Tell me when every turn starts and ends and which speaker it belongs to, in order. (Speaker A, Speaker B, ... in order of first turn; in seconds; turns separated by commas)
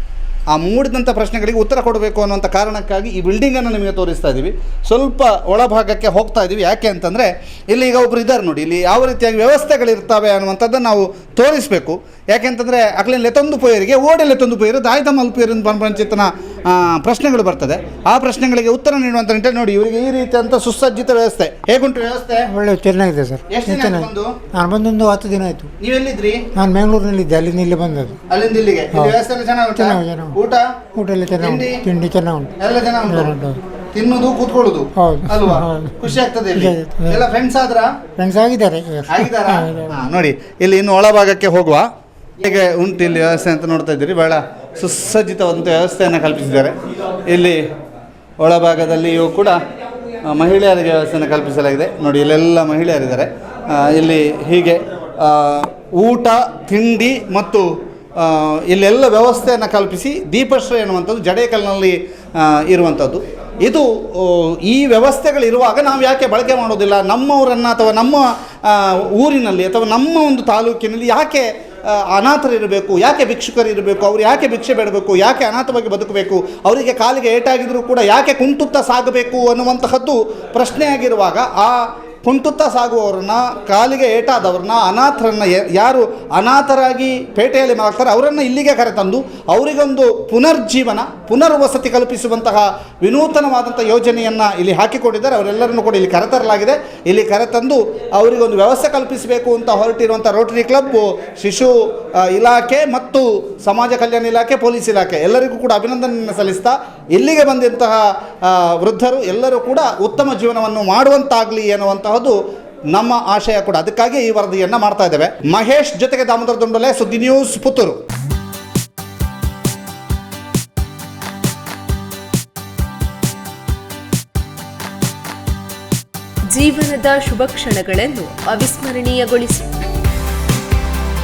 Speaker A: 0.5-22.4, Speaker B: 22.5-25.7, Speaker A: 23.5-24.4, Speaker A: 25.8-26.4, Speaker B: 26.6-28.2, Speaker A: 28.3-30.6, Speaker B: 29.7-30.4, Speaker B: 30.9-32.5, Speaker A: 31.4-31.8, Speaker A: 32.6-33.3, Speaker B: 33.1-33.6, Speaker A: 33.9-37.9, Speaker B: 35.0-35.9, Speaker B: 36.5-37.2, Speaker B: 38.2-39.9, Speaker A: 39.1-41.9, Speaker A: 42.4-46.7, Speaker A: 47.3-47.6, Speaker A: 48.4-49.6, Speaker A: 50.2-112.4, Speaker A: 112.9-118.0, Speaker C: 126.5-129.8